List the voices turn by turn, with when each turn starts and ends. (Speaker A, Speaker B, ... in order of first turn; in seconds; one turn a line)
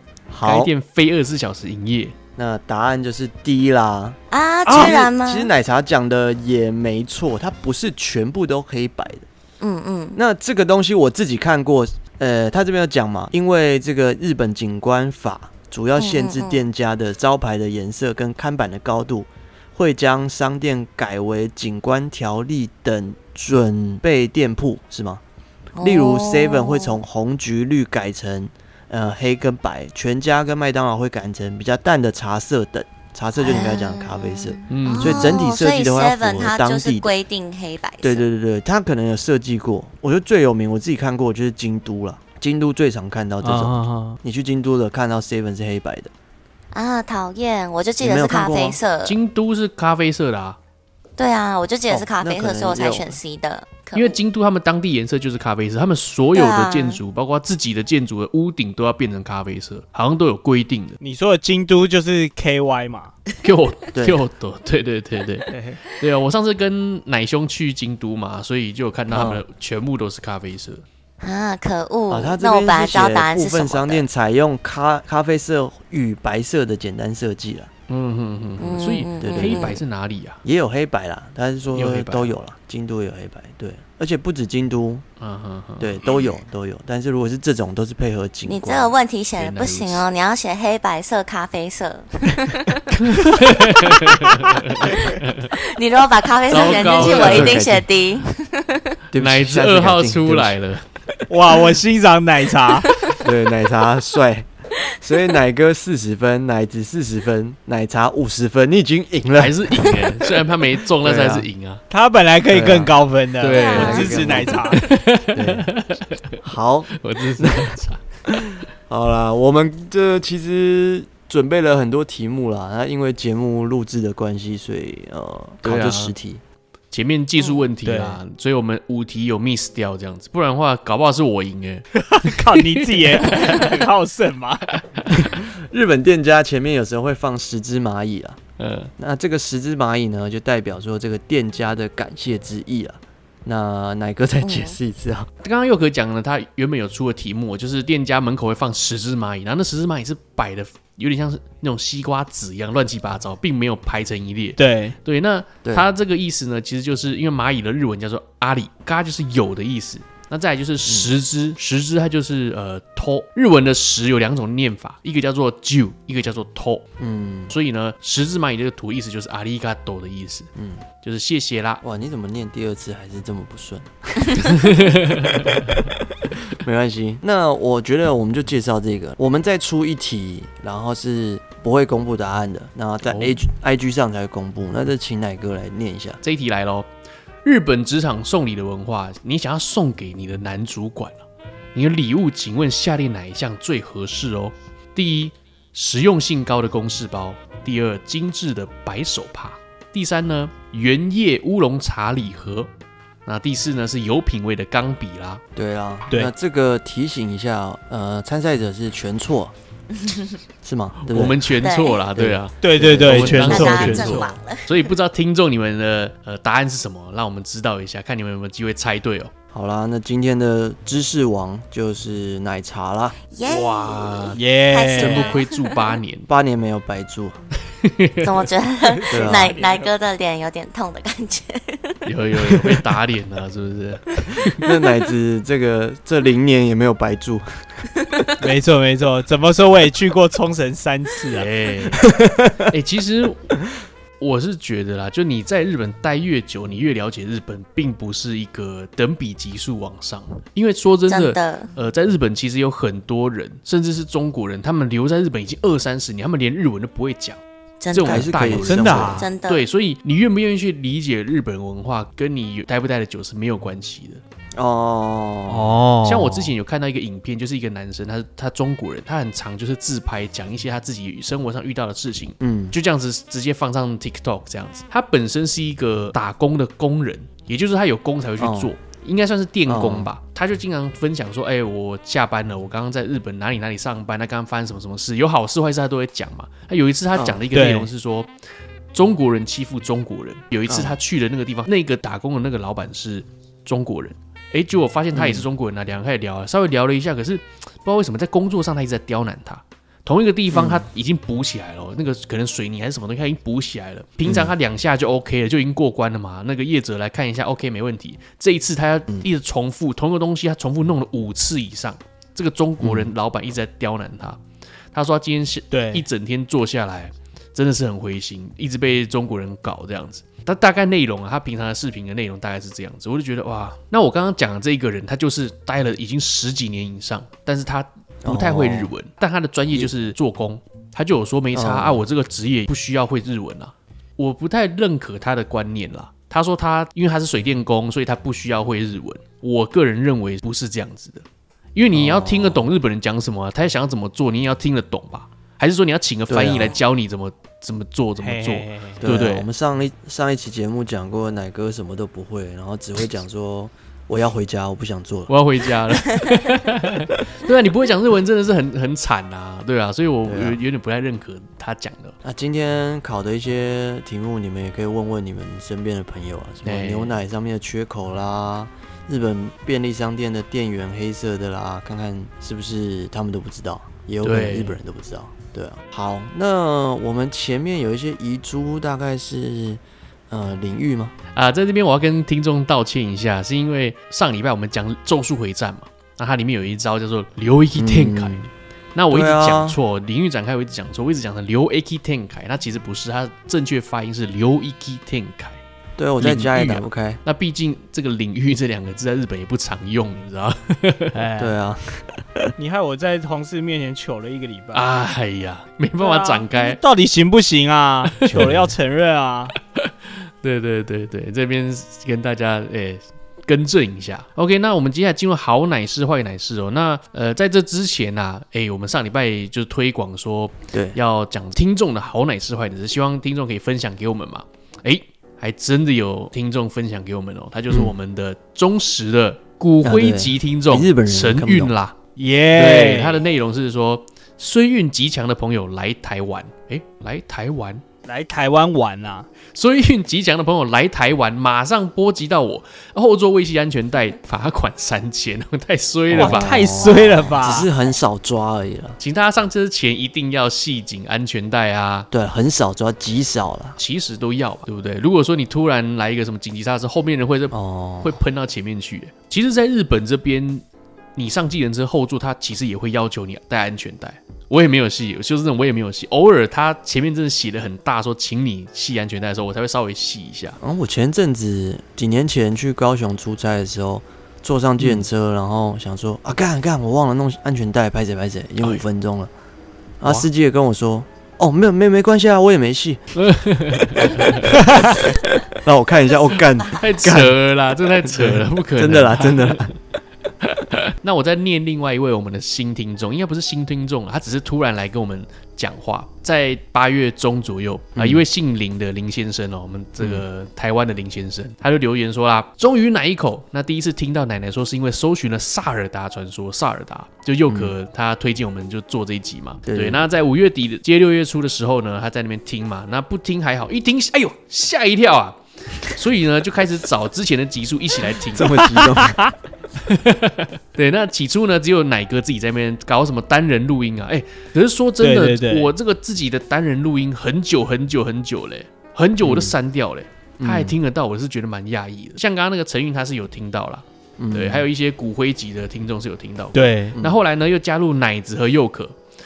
Speaker A: 0.3-0.7
Speaker B: 0.4-2.1
Speaker A: 2.4-9.3
Speaker C: 4.3-5.5
Speaker D: 4.7-5.0
Speaker C: 9.6-10.2
Speaker A: 10.2-25.2
Speaker C: 15.9-16.6
Speaker C: 25.8-27.0
Speaker A: 25.8-37.1
Speaker C: 33.4-38.2
Speaker B: 34.7-35.4
Speaker A: 38.0-46.1
Speaker D: 43.4-44.2
Speaker C: 46.7-49.2
Speaker A: 48.0-48.8
Speaker B: 49.0-50.6
Speaker C: 51.2-54.1
Speaker A: 51.9-53.1
Speaker B: 53.9-61.0
Speaker C: 56.3-57.0
Speaker D: 61.0-63.1
Speaker B: 63.4-70.8
Speaker A: 63.9-64.2
Speaker D: 65.5-65.8
Speaker A: 69.1-69.4
Speaker C: 71.2-74.0
Speaker A: 72.1-77.7
Speaker B: 77.9-80.4
Speaker C: 78.6-79.8
Speaker A: 79.2-79.8
Speaker A: 80.4-85.0
Speaker B: 81.7-82.3
Speaker B: 85.2-86.2
Speaker A: 85.8-88.9
Speaker C: 88.5-93.0
Speaker B: 89.3-90.0
Speaker B: 93.0-95.5
Speaker C: 95.0-98.9
Speaker B: 96.5-97.7
Speaker A: 96.9-97.9
Speaker A: 99.1-100.6
Speaker B: 99.1-101.0
Speaker D: 101.3-102.9
Speaker C: 102.8-103.2
Speaker A: 103.2-104.5
Speaker C: 104.8-105.3
Speaker A: 105.0-110.0
Speaker B: 109.3-111.8
Speaker A: 111.0-111.5
Speaker D: 111.9-114.8
Speaker A: 112.5-112.9
Speaker B: 113.4-118.0
Speaker C: 113.5-114.1
Speaker A: 113.7-115.7
Speaker A: 116.4-117.7
Speaker A: 118.3-126.4
Speaker B: 125.6-126.1
Speaker B: 126.9-133.7
Speaker C: 127.4-127.6
Speaker D: 127.8-128.2
Speaker D: 131.9-134.8
Speaker B: 134.9-135.2
Speaker A: 135.1-138.4
Speaker B: 138.6-138.9
Speaker A: 139.0-145.3
Speaker C: 144.4-144.8
Speaker B: 145.4-166.8
Speaker D: 154.6-155.0
Speaker A: 160.8-161.1
Speaker A: 167.0-167.5
Speaker B: 167.5-170.5
Speaker A: 170.6-170.8
Speaker B: 171.0-171.8
Speaker A: 171.8-174.9
Speaker B: 174.3-175.8
Speaker A: 176.5-186.2
Speaker B: 183.0-183.4
Speaker B: 186.2-186.9
Speaker B: 187.4-202.7
Speaker B: 203.2-205.4
Speaker A: 205.5-209.5
Speaker C: 209.9-210.4
Speaker A: 210.6-211.5
Speaker B: 211.0-219.3
Speaker C: 211.6-212.0
Speaker A: 212.1-214.1
Speaker D: 212.6-214.3
Speaker C: 213.3-214.7
Speaker A: 219.5-223.2
Speaker C: 223.3-225.9
Speaker B: 223.4-224.4
Speaker D: 224.3-225.3
Speaker B: 224.9-226.3
Speaker A: 226.3-227.3
Speaker B: 227.7-228.5
Speaker C: 228.2-232.0
Speaker D: 228.9-229.9
Speaker A: 229.1-229.6
Speaker B: 232.0-234.7
Speaker A: 234.6-237.7
Speaker C: 238.0-238.3
Speaker D: 238.4-241.5
Speaker B: 241.3-242.1
Speaker A: 242.0-242.7
Speaker B: 242.7-243.5
Speaker B: 244.2-264.2
Speaker C: 251.1-251.7
Speaker C: 257.8-258.5
Speaker A: 258.0-259.3
Speaker D: 258.6-259.2
Speaker C: 259.0-259.6
Speaker A: 264.5-265.8
Speaker D: 265.5-266.5
Speaker B: 266.0-288.3
Speaker A: 272.4-272.8
Speaker A: 278.4-278.7
Speaker A: 279.7-280.1
Speaker A: 287.1-287.4
Speaker D: 287.5-287.9
Speaker B: 288.9-314.4
Speaker A: 290.7-291.0
Speaker A: 295.1-295.5
Speaker A: 300.5-300.9
Speaker A: 304.2-304.5
Speaker A: 312.8-313.1
Speaker B: 314.9-349.5
Speaker D: 315.7-316.1
Speaker A: 328.2-328.9
Speaker A: 331.5-332.0
Speaker A: 341.9-342.6
Speaker A: 346.3-346.8
Speaker D: 348.2-349.0
Speaker A: 349.0-355.3
Speaker B: 355.3-362.1
Speaker A: 360.2-360.6
Speaker A: 362.2-381.1
Speaker B: 366.6-367.1
Speaker B: 374.2-374.8
Speaker B: 381.3-395.6
Speaker A: 387.8-388.5
Speaker A: 389.1-389.8
Speaker A: 396.0-397.2
Speaker B: 396.2-401.1
Speaker D: 401.1-401.6
Speaker A: 401.4-402.5
Speaker D: 402.6-404.9
Speaker B: 404.7-406.8
Speaker D: 406.0-409.5
Speaker B: 408.1-408.7
Speaker B: 409.7-431.9
Speaker A: 420.7-421.0
Speaker A: 429.8-431.7
Speaker D: 432.1-433.2
Speaker B: 432.5-437.8
Speaker D: 438.0-439.3
Speaker B: 439.5-446.9
Speaker A: 446.1-449.0
Speaker D: 446.1-447.7
Speaker B: 449.0-452.1
Speaker A: 452.1-453.8
Speaker B: 453.8-460.6
Speaker A: 457.5-458.1
Speaker B: 461.1-470.6
Speaker A: 470.6-479.3
Speaker A: 480.0-483.0
Speaker B: 483.1-484.6
Speaker A: 483.9-487.4
Speaker B: 486.7-489.7
Speaker A: 488.0-489.8
Speaker B: 490.4-518.7
Speaker A: 497.9-498.2
Speaker A: 507.5-507.7
Speaker A: 509.6-510.0
Speaker A: 518.2-519.2
Speaker D: 518.7-519.3
Speaker B: 519.8-539.0
Speaker D: 525.0-525.7
Speaker A: 529.2-529.5
Speaker A: 530.4-530.8
Speaker A: 534.2-534.6
Speaker D: 536.5-537.0
Speaker A: 536.9-537.2